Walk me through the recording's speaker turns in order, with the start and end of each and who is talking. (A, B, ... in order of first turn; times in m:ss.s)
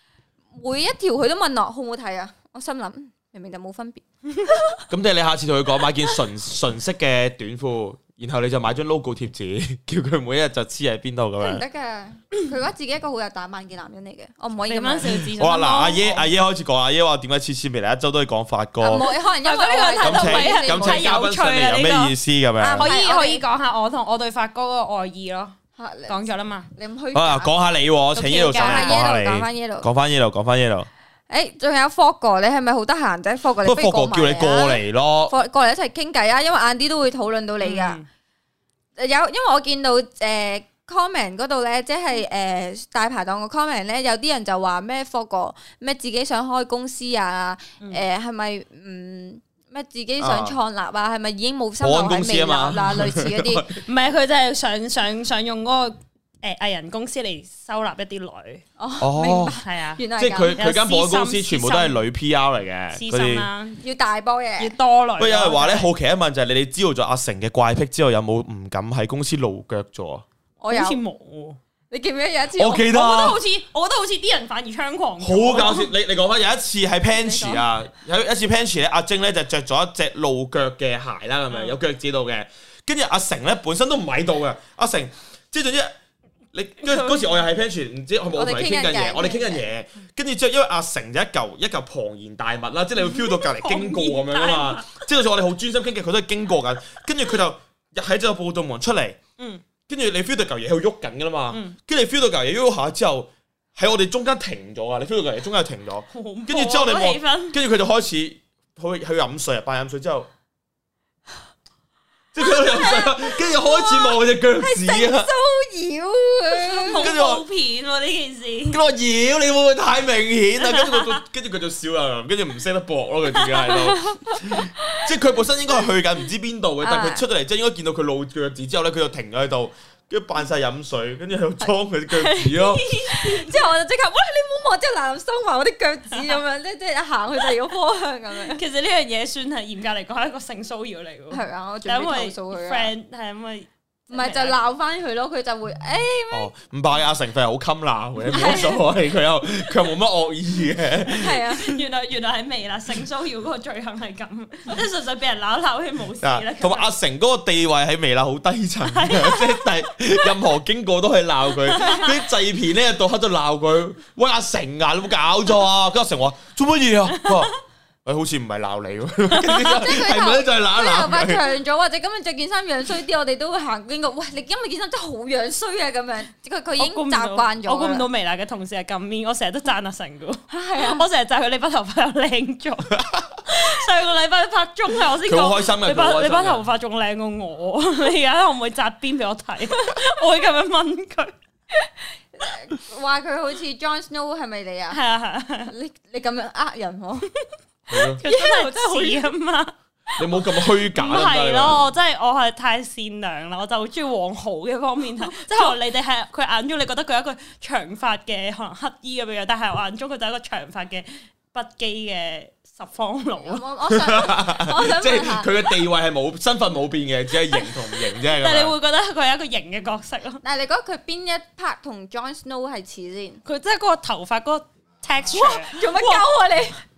0:00.5-0:04.8 A
0:04.9-0:11.6 B
0:11.4-0:15.2 A
0:14.7-0:16.3 C
0:15.3-0:19.0 B
0:18.8-0:21.3 A
0:19.0-0:22.2 C
0:20.0-0:22.9 B
0:22.6-0:23.4 A
0:22.8-0:25.6 C
0:25.8-0:27.5 A
0:26.1-0:26.7 C
0:27.1-0:30.9 B
0:28.1-0:29.0 C
0:28.5-0:29.9 A
0:31.3-0:38.0 A
0:33.6-0:35.3 B
0:37.6-0:38.0 C
0:39.0-0:53.7 A
0:50.2-0:50.6 B
0:51.8-0:53.8 B
0:53.8-0:58.6 C
0:58.8-1:00.6 A
0:59.0-0:59.6 B
0:59.4-1:00.0 C
1:00.2-1:03.5 B
1:00.5-1:02.0 C
1:02.9-1:03.8 C
1:03.8-1:04.7 A
1:04.6-1:05.9 C
1:05.2-1:10.2 B
1:10.6-1:11.0 A
1:10.7-1:11.6 C
1:11.9-1:12.9 A
1:12.5-1:13.4 B
1:12.9-1:15.9 C
1:15.2-1:25.9 B
1:17.2-1:17.6 A
1:21.5-1:21.8 C
1:26.5-1:39.2 B
1:28.3-1:29.6 A
1:33.0-1:34.9 C
1:39.4-1:39.6 C
1:39.9-1:50.3 B
1:41.5-1:41.8 C
1:46.1-1:47.6 C
1:52.3-1:55.3 B
1:52.4-1:57.1 A
1:56.7-1:58.8 C
1:56.9-1:57.4 B
1:58.7-2:12.8 B
2:00.6-2:01.2 C
2:03.5-2:05.0 A
2:06.8-2:07.2 A
2:12.1-2:18.6 A
2:12.8-2:13.6 C
2:16.1-2:16.4 C
2:18.5-2:24.6 C
2:21.3-2:22.9 A
2:24.1-2:26.5 A
2:26.3-2:31.4 B
2:28.3-2:28.8 A
2:31.1-2:31.8 A
2:31.4-2:36.9 C
2:36.2-2:47.5 B
2:38.8-2:39.7 C
2:41.7-2:42.2 C
2:48.0-2:51.4 B
2:49.6-2:58.1 A
2:56.8-3:11.3 C
3:00.5-3:01.1 A
3:03.0-3:03.4 B
3:05.2-3:06.6 B
3:11.7-3:15.0 A
3:14.9-3:15.7 C
3:15.7-3:17.3 A
3:17.9-3:18.2 B
3:18.2-3:19.2 A
3:18.2-3:19.7 C
3:20.2-3:21.9 B
3:20.9-3:33.6 C
3:25.3-3:25.7 A
3:33.4-3:35.5 A
3:33.9-3:38.7 B
3:37.5-3:40.4 C
3:40.4-3:43.4 A
3:43.4-3:46.3 C
3:45.3-3:46.8 A